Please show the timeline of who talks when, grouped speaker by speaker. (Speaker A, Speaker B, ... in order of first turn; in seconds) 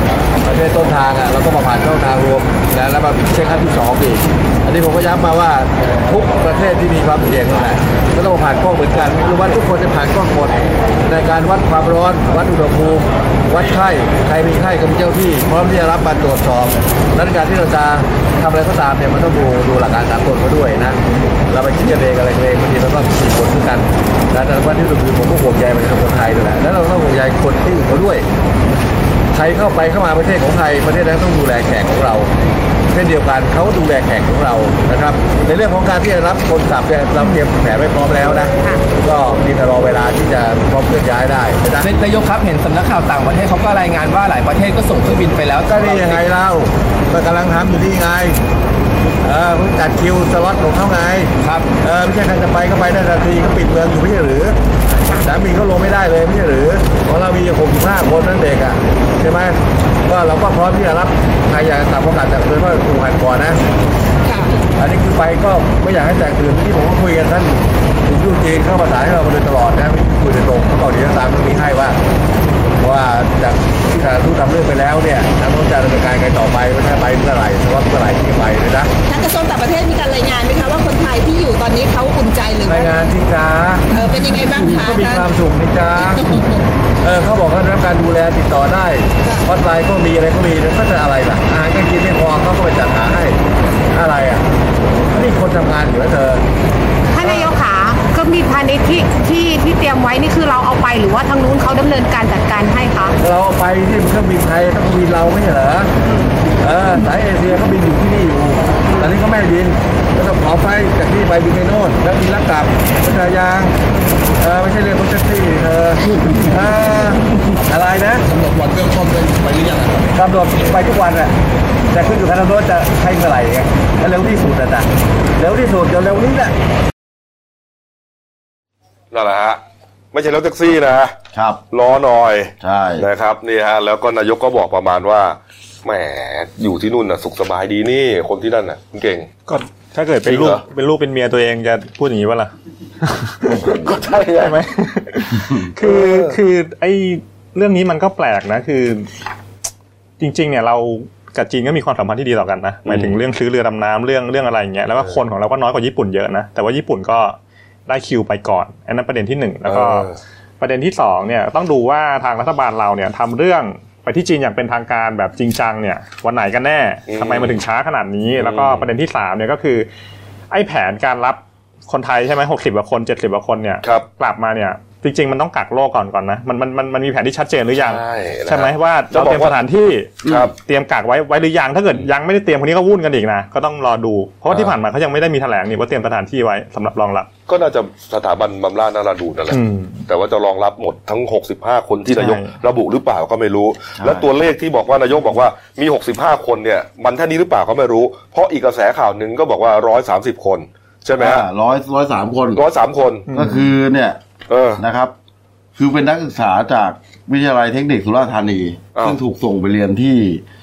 Speaker A: 0.4-28.3, 29.3-32.3, 32.9-42.0, 45.6-48.4, 49.2-54.6, 55.2-63.6, 64.8-72.0, 72.8-78.9, 82.7-86.2, 87.0-93.4, 93.9-94.5, 95.1-96.4, 103.2-105.9, 106.6-113.8, 114.4-121.3, 121.9-126.5
Speaker B: 41.8-46.2, 51.4-51.7
Speaker C: 64.2-64.6, 79.1-83.0, 83.9-85.3, 86.0-86.6
Speaker D: 97.2-103.2
Speaker E: 129.1-129.6, 130.1-131.2, 131.7-139.3, 140.2-140.6, 143.5-144.6, 145.8-146.3, 152.9-153.2, 159.7-160.2, 167.1-167.6, 168.4-168.9, 177.8-179.6, 180.3-180.5, 187.5-201.5, 202.6-203.3, 204.5-204.8
Speaker F: 131.3-131.6, 132.6-133.1, 145.3-145.7, 180.2-180.5, 194.0-194.3, 201.2-202.6, 203.3-204.2, 204.8-205.1, 205.8-210.4
Speaker G: 139.5-143.7, 144.4-149.1, 150.2-157.4, 157.9-160.1, 160.6-169.9, 170.5-187.3, 189.5-190.0, 192.1-192.5, 203.3-203.6